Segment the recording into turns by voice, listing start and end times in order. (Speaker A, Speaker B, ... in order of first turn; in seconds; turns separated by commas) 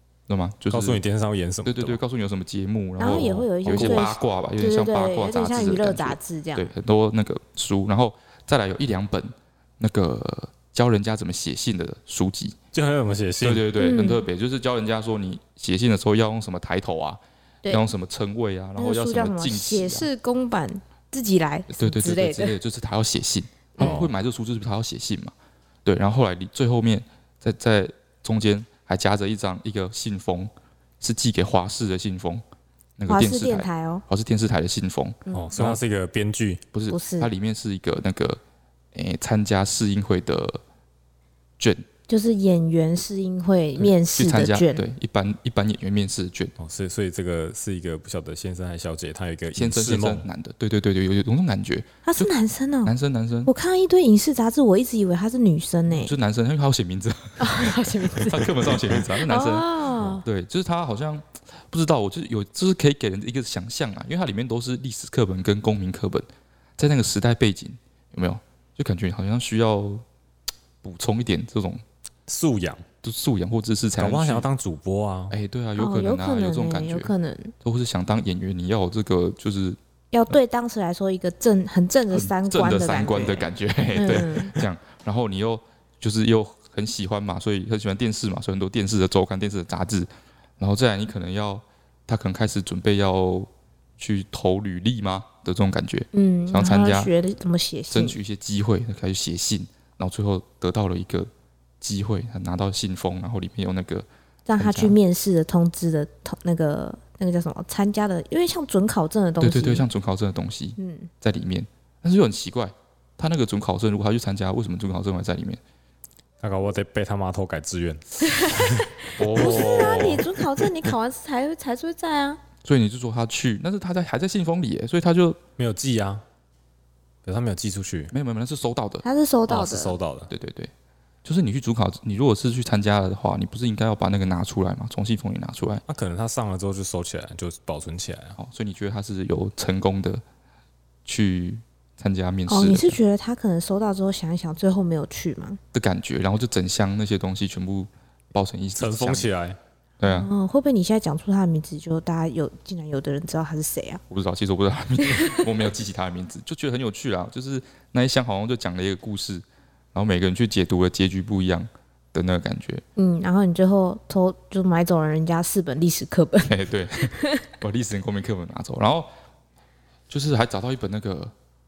Speaker A: 0.3-1.0, Speaker B: 0.7-2.0, Speaker A: 1.6-12.6, Speaker C: 3.0-6.7, Speaker B: 3.0-4.1, Speaker B: 12.7-13.7, Speaker A: 13.4-20.1, Speaker C: 13.8-14.2, Speaker C: 18.8-22.6, Speaker A: 21.7-25.3, Speaker B: 23.8-24.1, Speaker A: 25.8-32.4, Speaker A: 33.0-35.8, Speaker C: 33.1-34.0, Speaker B: 35.3-36.6, Speaker A: 36.7-38.4, Speaker C: 36.9-37.3, Speaker A: 38.9-40.6, Speaker A: 41.6-41.9, Speaker C: 42.1-44.8, Speaker A: 43.8-46.5, Speaker B: 46.6-50.3, Speaker A: 49.5-52.3, Speaker C: 52.0-52.9, Speaker A: 52.8-53.5, Speaker C: 53.5-56.1, Speaker A: 55.9-59.7, Speaker C: 57.4-60.2, Speaker A: 60.2-66.2, Speaker A: 66.8-70.0, Speaker A: 70.8-71.8, Speaker B: 72.3-72.8, Speaker A: 73.0-74.5, Speaker B: 74.0-75.3, Speaker A: 75.3-77.1, Speaker C: 75.8-77.5, Speaker A: 77.6-79.8, Speaker C: 80.1-84.5, Speaker A: 82.1-97.1, Speaker C: 96.1-98.2, Speaker A: 97.9-101.3, Speaker A: 101.8-104.1, Speaker C: 104.5-109.8, Speaker A: 104.6-104.9, Speaker A: 109.4-115.6, Speaker C: 110.8-111.1, Speaker B: 116.4-118.8, Speaker C: 118.3-122.4, Speaker A: 119.2-120.3, Speaker B: 119.4-119.8, Speaker A: 122.6-125.4, Speaker B: 125.6-126.2, Speaker B: 127.2-128.1, Speaker A: 128.1-129.0, Speaker C: 129.0-129.9, Speaker B: 129.5-130.3, Speaker A: 130.3-130.7, Speaker A: 131.2-135.8, Speaker B: 135.9-138.4, Speaker A: 138.4-140.2, Speaker A: 141.0-143.0, Speaker C: 142.5-145.6, Speaker A: 145.7-149.3, Speaker B: 148.8-149.6, Speaker A: 150.0-150.3, Speaker C: 150.0-154.0, Speaker A: 154.1-162.8, Speaker C: 162.9-167.4, Speaker A: 166.5-169.1, Speaker A: 170.1-171.3